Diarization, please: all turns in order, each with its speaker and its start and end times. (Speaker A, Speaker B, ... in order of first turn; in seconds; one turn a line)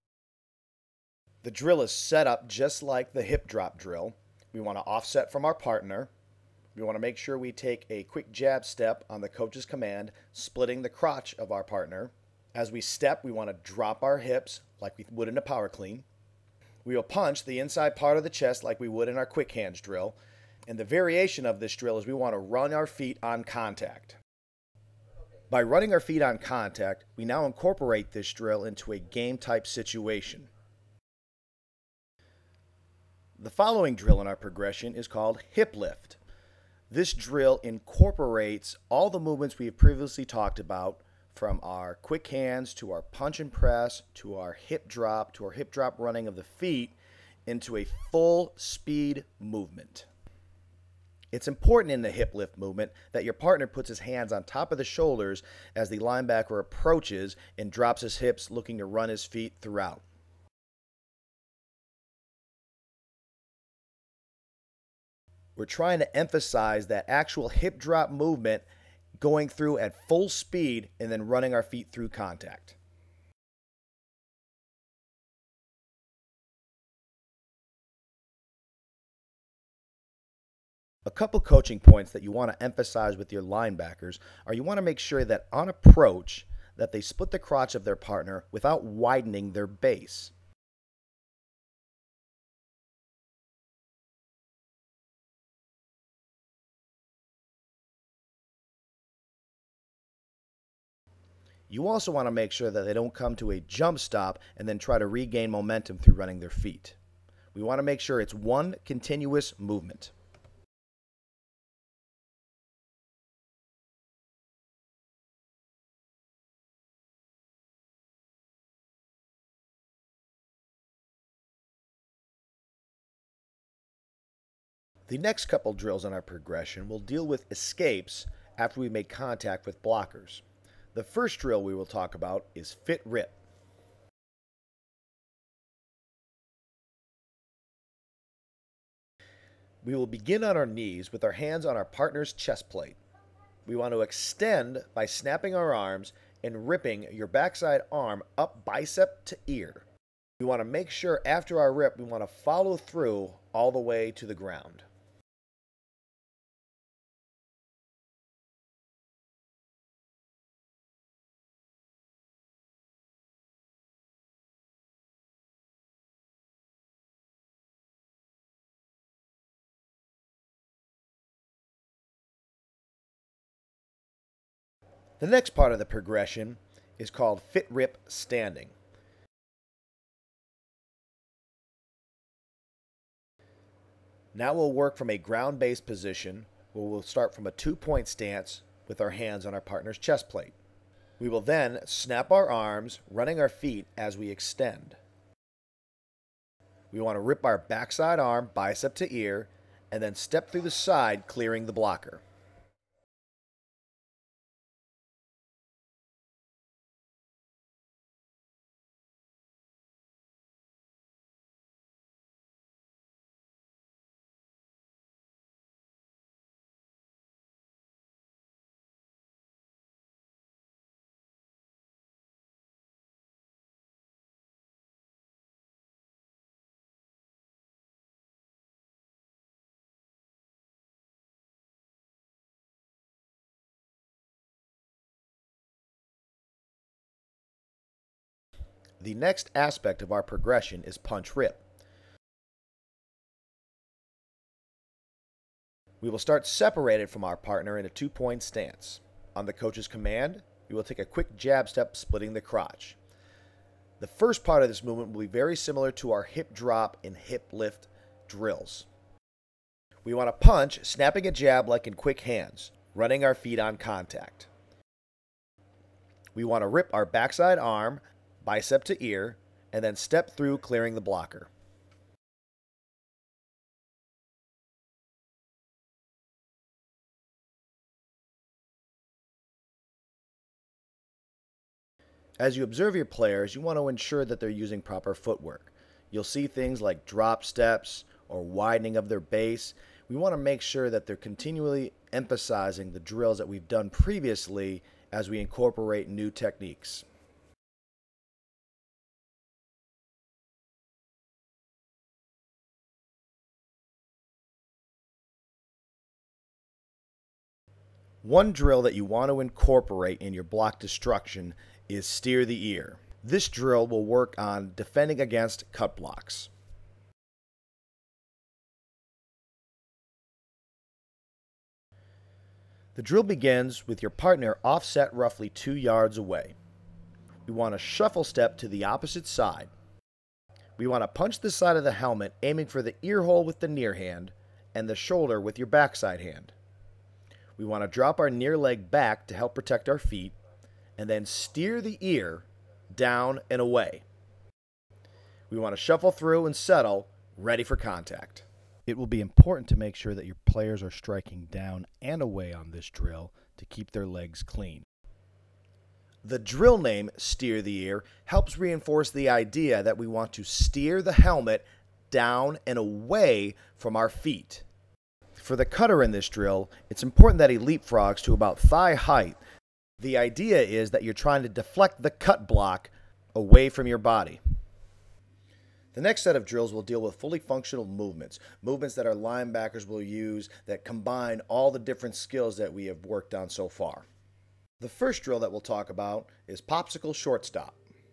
Speaker A: 1.4-6.1
Speaker A: 6.7-16.1
Speaker A: 16.8-24.2
Speaker A: 25.5-30.5
Speaker A: 33.4-36.2
Speaker A: 36.9-46.9
Speaker A: 47.5-50.1
Speaker A: 51.3-60.0
Speaker A: 65.5-68.7
Speaker A: 69.2-72.8
Speaker A: 81.0-90.3
Speaker A: 101.7-107.0
Speaker A: 107.5-110.1
Speaker A: 125.1-130.4
Speaker A: 130.9-133.3
Speaker A: 139.8-143.0
Speaker A: 143.7-149.8
Speaker A: 150.4-154.8
Speaker A: 175.2-178.7
Speaker A: 184.3-190.6
Speaker A: 191.2-195.0
Speaker A: 196.9-202.2
Speaker A: 239.0-241.6
Speaker A: 246.0-253.0
Speaker A: 254.0-258.9
Speaker A: 260.0-264.5
Speaker A: 266.3-271.5
Speaker A: 282.4-297.1
Speaker A: 308.2-316.5
Speaker A: 322.9-326.5
Speaker A: 327.4-329.7
Speaker A: 330.8-336.5
Speaker A: 337.6-340.3
Speaker A: 341.0-344.0
Speaker A: 345.5-354.9
Speaker A: 356.2-364.6
Speaker A: 365.4-369.4
Speaker A: 370.0-374.4
Speaker A: 375.9-384.1
Speaker A: 384.8-387.8